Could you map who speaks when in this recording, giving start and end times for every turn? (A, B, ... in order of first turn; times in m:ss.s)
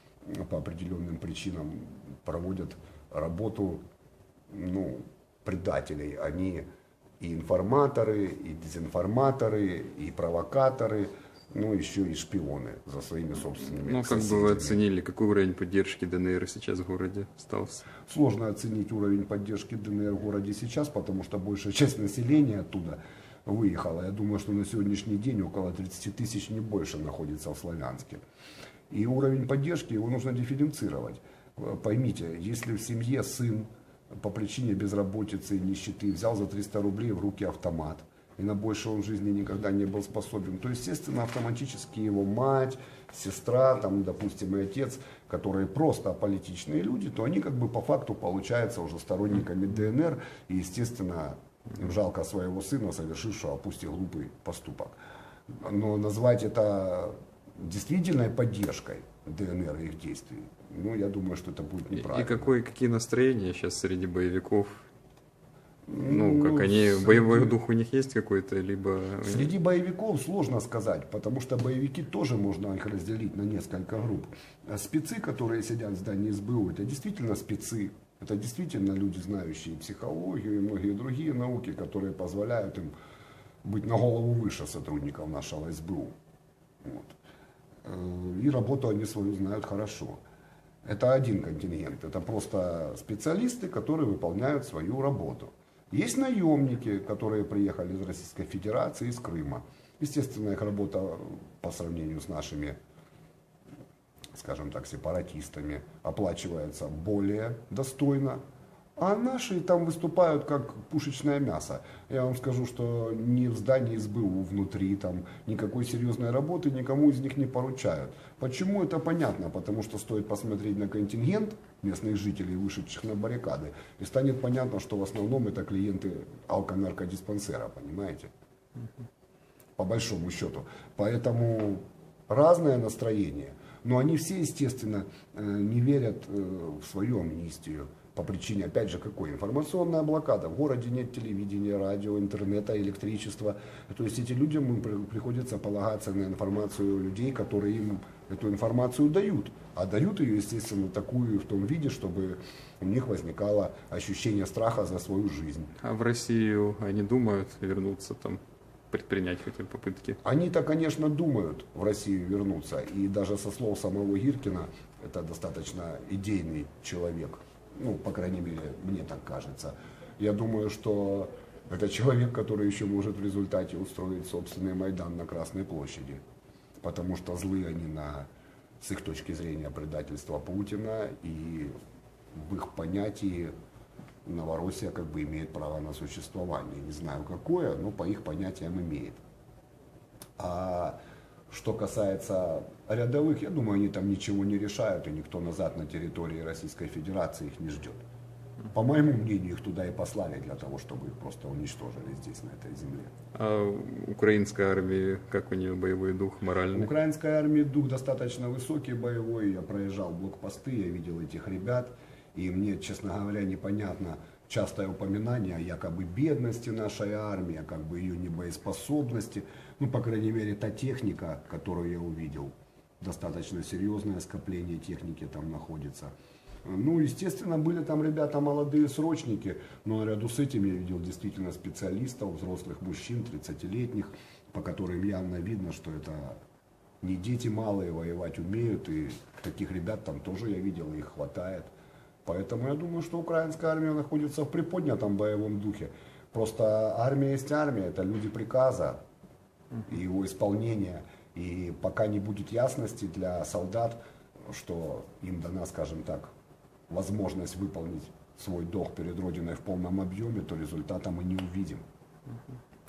0:00.2-0:03.8 A
0:04.5-0:06.6 A
0:07.2-0:14.8 A
0:13.8-0:17.9 B
0:18.0-0:28.2 A
0:28.9-0:33.7 A
0:34.2-0:55.0 A
0:55.5-1:02.5 A
1:01.9-1:04.8 B
1:05.9-1:07.6 A
1:06.0-1:09.5 B
1:09.2-1:22.9 A
1:23.6-1:26.1 A
1:26.8-1:27.2 A
1:27.8-1:30.2 A
1:30.8-1:42.8 A
1:44.3-1:48.4 A
1:49.0-2:08.3 A
2:09.8-2:35.7 A
2:35.8-2:40.2 B
2:40.2-2:56.2 A
2:56.8-2:58.3 A
2:58.8-3:01.7 A
3:02.4-3:03.5 A
3:04.2-3:09.2 A
3:10.4-3:11.0 A
3:11.5-3:18.0 A
3:18.7-3:23.1 A
3:23.3-3:26.9 B
3:26.7-3:46.1 A
3:46.6-3:56.4 A
3:57.0-4:01.7 A
4:02.2-4:09.0 A
4:09.8-4:16.3 A
4:16.9-4:21.8 A
4:22.3-4:22.6 B